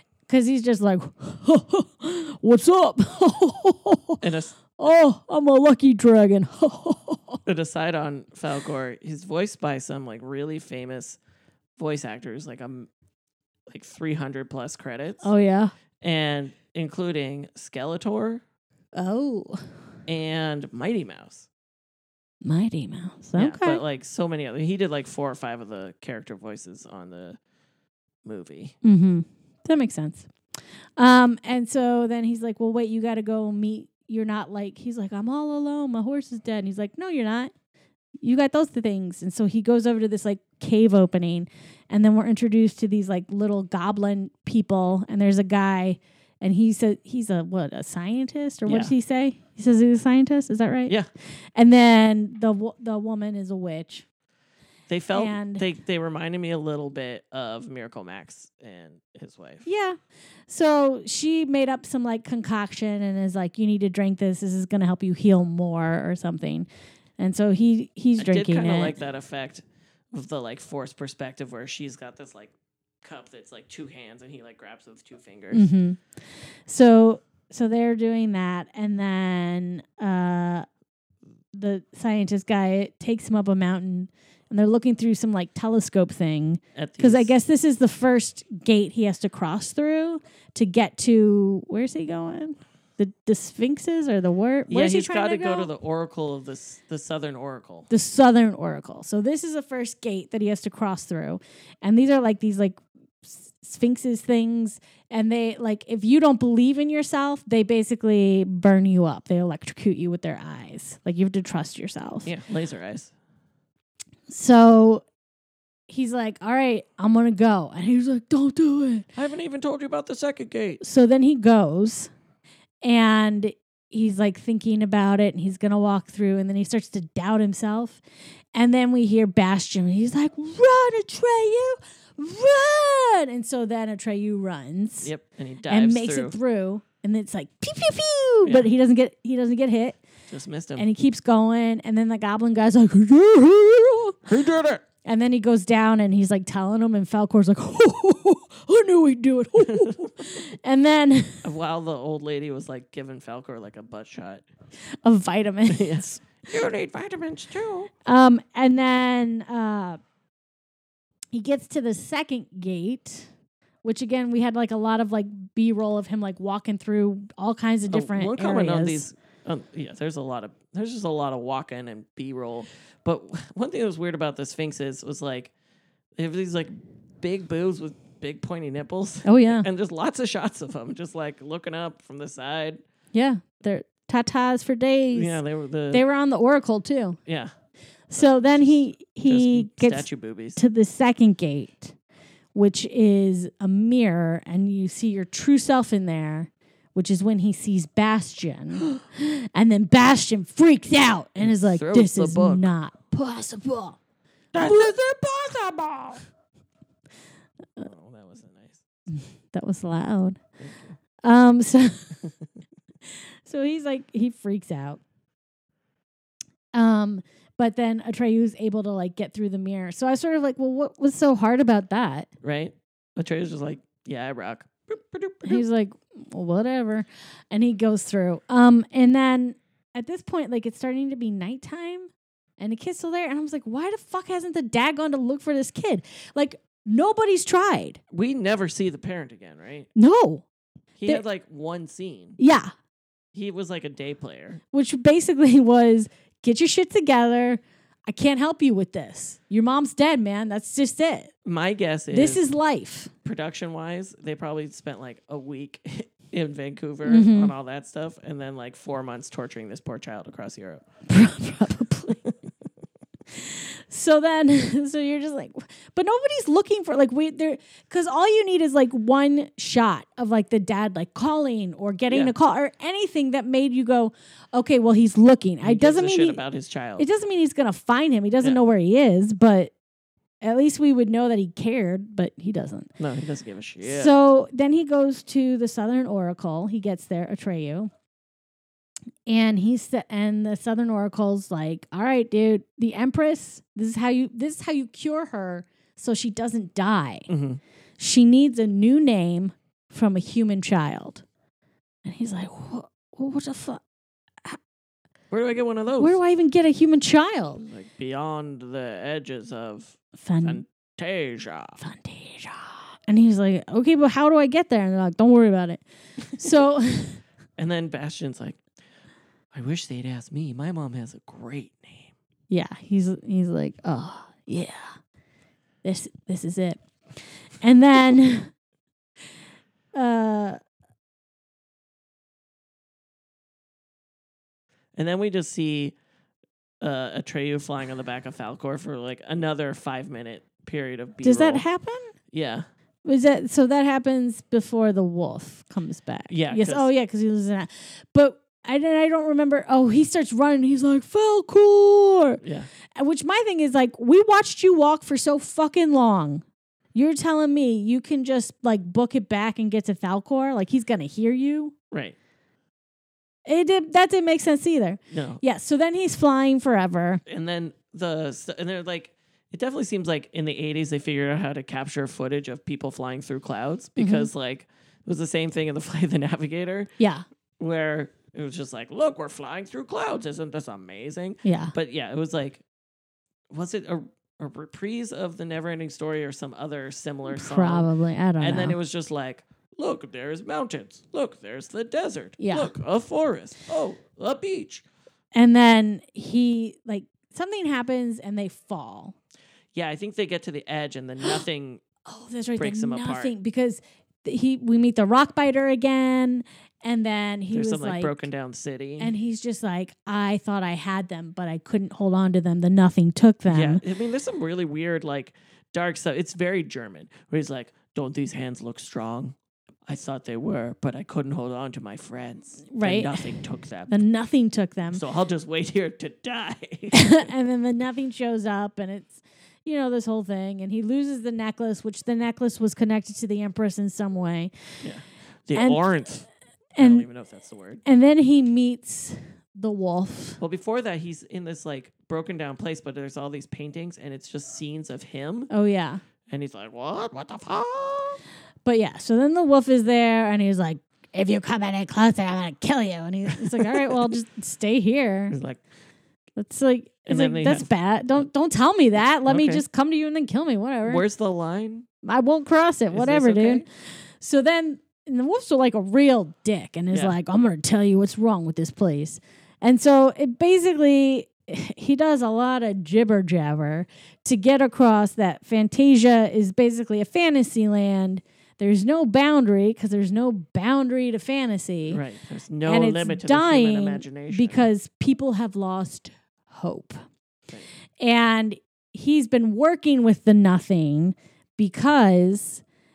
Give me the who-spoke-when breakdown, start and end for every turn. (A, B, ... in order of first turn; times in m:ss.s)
0:00.3-0:04.2 A
0:04.2-0:04.5 B
0:04.8-0:07.4 A
0:07.4-0:11.2 B
0:11.8-0:12.9 B
0:13.7-0:15.3 B
0:15.2-0:15.7 A
0:16.0-0:18.4 B
0:18.9-0:19.6 A
0:20.1-0:21.5 B
0:22.4-0:23.8 A
0:23.4-0:27.4 B
0:28.2-0:28.8 B
0:28.8-0:30.3 A
0:31.0-0:37.5 A
0:38.2-0:50.9 A
0:48.6-0:48.9 B
0:51.6-0:54.0 A
0:54.9-0:59.6 B
0:55.1-0:55.6 A
0:59.6-1:09.0 A
1:08.2-1:15.7 B
1:15.5-1:16.0 A
1:16.6-1:20.6 A
1:21.5-1:35.7 A
1:26.7-1:27.3 B
1:34.7-1:37.9 B
1:37.9-1:52.3 A
1:52.2-1:53.1 B
1:54.3-1:55.0 A
1:55.9-1:59.0 A
1:59.1-2:00.8 B
2:00.8-2:02.1 A
2:02.8-2:08.0 A
2:08.5-2:15.1 A
2:15.0-2:16.4 B
2:15.7-2:20.0 A
2:20.3-2:20.9 B
2:20.8-2:24.2 A
2:24.2-2:24.8 B
2:25.0-2:31.4 A
2:29.6-2:30.3 B
2:31.4-2:34.4 B
2:35.0-2:36.0 A
2:35.7-2:37.9 B
2:38.0-2:40.0 A
2:41.3-2:43.3 A
2:43.8-2:49.0 A
2:47.9-2:55.5 B
2:56.2-3:02.8 B
2:59.2-2:59.6 A
3:03.1-3:05.4 A
3:05.1-3:06.0 B
3:05.9-3:07.2 A
3:07.2-3:07.5 B
3:08.1-3:11.9 A
3:08.1-3:10.6 B
3:12.5-3:24.0 A
3:21.4-3:22.7 B
3:24.5-3:26.2 B
3:24.6-3:25.0 A
3:27.8-3:28.8 B
3:29.2-3:30.4 A
3:30.6-3:31.0 B
3:31.2-3:32.2 A
3:32.2-3:32.5 B
3:33.1-3:35.0 A
3:36.7-3:42.3 A
3:42.4-3:45.6 B
3:45.4-3:58.0 A
3:58.1-3:59.9 B
4:00.0-4:00.4 A
4:01.0-4:02.4 B
4:02.4-4:02.7 A
4:03.3-4:04.6 B
4:04.7-4:11.3 A
4:11.4-4:12.4 B
4:12.1-4:13.1 A
4:13.2-4:20.8 B
4:17.0-4:17.5 A
4:21.1-4:22.2 A
4:22.1-4:22.3 B
4:23.3-4:36.4 A
4:32.1-4:32.3 B
4:35.6-4:37.0 B
4:37.0-4:39.7 A
4:40.4-4:42.9 A
4:43.0-4:44.1 B
4:43.8-4:47.9 A
4:49.3-4:57.3 A
4:57.3-4:57.6 B
4:58.0-5:01.2 A
5:02.0-5:03.8 A
5:05.3-5:06.2 B
5:06.0-5:07.6 A
5:07.6-5:11.8 B
5:10.2-5:10.6 A
5:11.8-5:17.2 A
5:17.6-5:18.6 B
5:19.5-5:22.2 B
5:22.5-5:25.0 A
5:25.8-5:26.8 A
5:27.6-5:28.5 A
5:29.9-5:30.6 A
5:34.9-5:36.0 B
5:36.8-5:41.6 B
5:41.2-5:42.1 A
5:42.3-5:42.7 B
5:43.0-5:52.4 A
5:46.3-5:46.9 B
5:52.4-5:52.7 B
5:53.0-6:01.7 A
6:01.9-6:02.2 B
6:03.4-6:07.2 A
6:05.1-6:05.4 B
6:07.2-6:16.9 B
6:14.0-6:14.3 A
6:17.0-6:17.2 A
6:17.6-6:22.6 B
6:21.4-6:21.7 A
6:23.5-6:34.8 B
6:27.3-6:28.8 A
6:32.4-6:32.7 A
6:35.3-6:39.1 A
6:39.7-6:41.8 B
6:42.0-6:48.3 A
6:42.6-6:43.3 B
6:47.5-6:49.1 B
6:49.0-6:53.8 A
6:53.5-7:03.9 B
7:02.7-7:03.3 A
7:03.9-7:05.0 A
7:04.9-7:07.3 B
7:06.9-7:14.5 A
7:14.8-7:16.3 B
7:15.5-7:15.8 A
7:16.8-7:17.0 A
7:16.8-7:17.8 B
7:17.8-7:20.4 A
7:20.4-7:25.5 B
7:25.5-7:26.0 A
7:26.3-7:28.2 B
7:28.6-7:35.4 A
7:33.3-7:34.0 B
7:35.3-7:35.6 B
7:36.4-7:41.0 A
7:37.0-7:37.7 B
7:39.3-7:39.6 B
7:40.8-7:41.9 B
7:42.0-7:43.6 A
7:42.9-7:43.6 B
7:44.2-8:02.0 A
7:46.9-7:47.2 B
8:01.9-8:04.7 B
8:02.6-8:07.0 A
8:08.0-8:12.6 A